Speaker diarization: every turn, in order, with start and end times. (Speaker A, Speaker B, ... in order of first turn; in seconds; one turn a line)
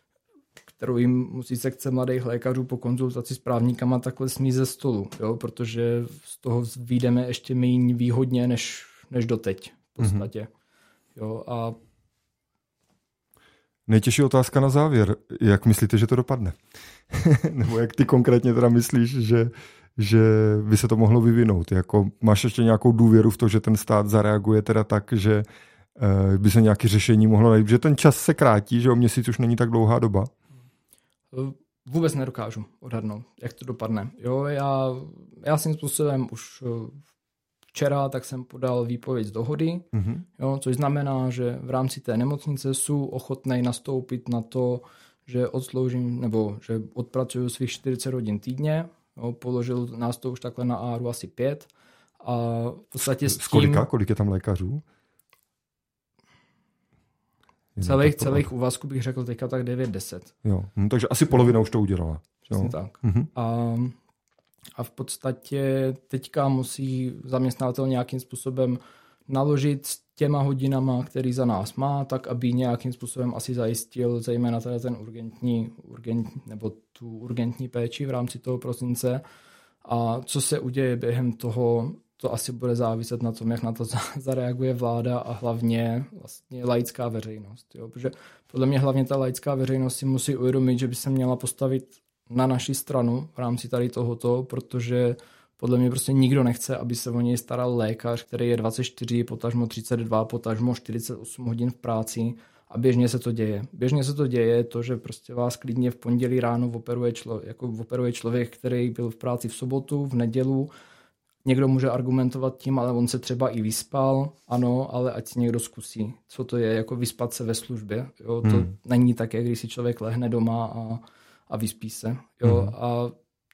Speaker A: 0.8-10.5
Speaker B: 10.0-10.3
Speaker A: 11.2-11.8
Speaker B: 13.9-16.6
Speaker B: 17.1-25.5
Speaker B: 26.0-30.3
Speaker A: 31.3-37.0
Speaker A: 37.7-51.7
Speaker B: 39.9-40.2
Speaker A: 52.2-53.9
Speaker B: 53.2-54.8
Speaker B: 57.8-58.5
Speaker A: 57.8-60.3
Speaker B: 60.4-63.3
Speaker A: 62.5-64.0
Speaker A: 64.8-79.2
Speaker A: 79.8-110.7
Speaker A: 111.5-123.1